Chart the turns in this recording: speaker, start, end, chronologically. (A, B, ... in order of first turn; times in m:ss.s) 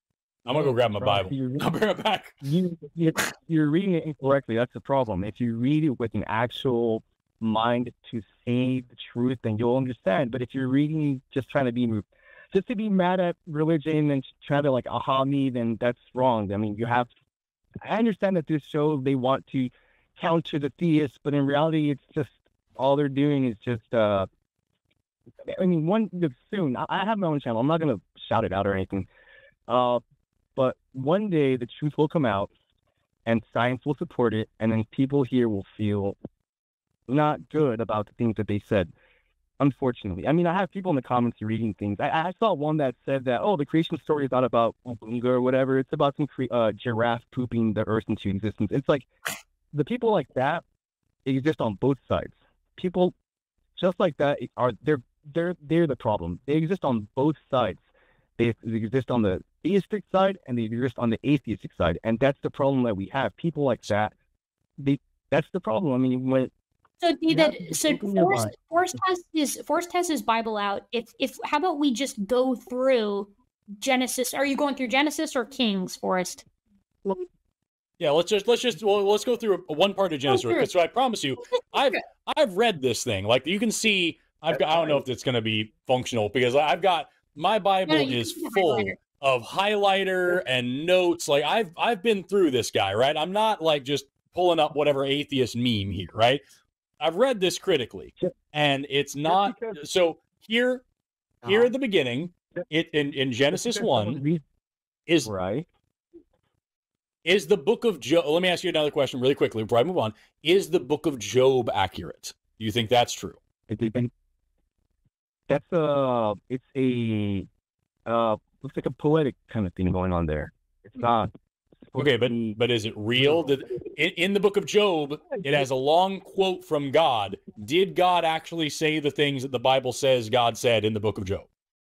0:00.4-0:01.7 A
0:00.4-0:02.4 B
0:02.4-0:17.1 A
0:17.8-0:24.3 A
0:25.4-0:29.1 A
0:29.7-0:30.0 A
0:30.6-0:32.5 A
0:33.2-0:36.2 A
0:37.1-0:38.9 A
0:39.6-0:49.1 A
0:49.7-0:50.6 A
0:51.2-0:53.1 A
0:53.7-0:57.8 A
0:58.4-1:04.1 A
1:04.8-1:06.5 A
1:07.0-1:16.4 C
1:07.3-1:08.5 A
1:18.0-1:36.4 B
1:20.3-1:20.7 C
1:27.9-1:29.0 C
1:37.0-1:40.8 B
1:41.4-1:44.2 B
1:43.9-1:44.4 A
1:45.1-1:45.3 B
1:45.2-1:45.6 A
1:47.2-1:53.4 B
1:53.7-1:54.1 A
1:55.5-1:57.5 A
1:58.0-2:01.3 A
2:01.9-2:02.6 A
2:02.0-2:11.5 B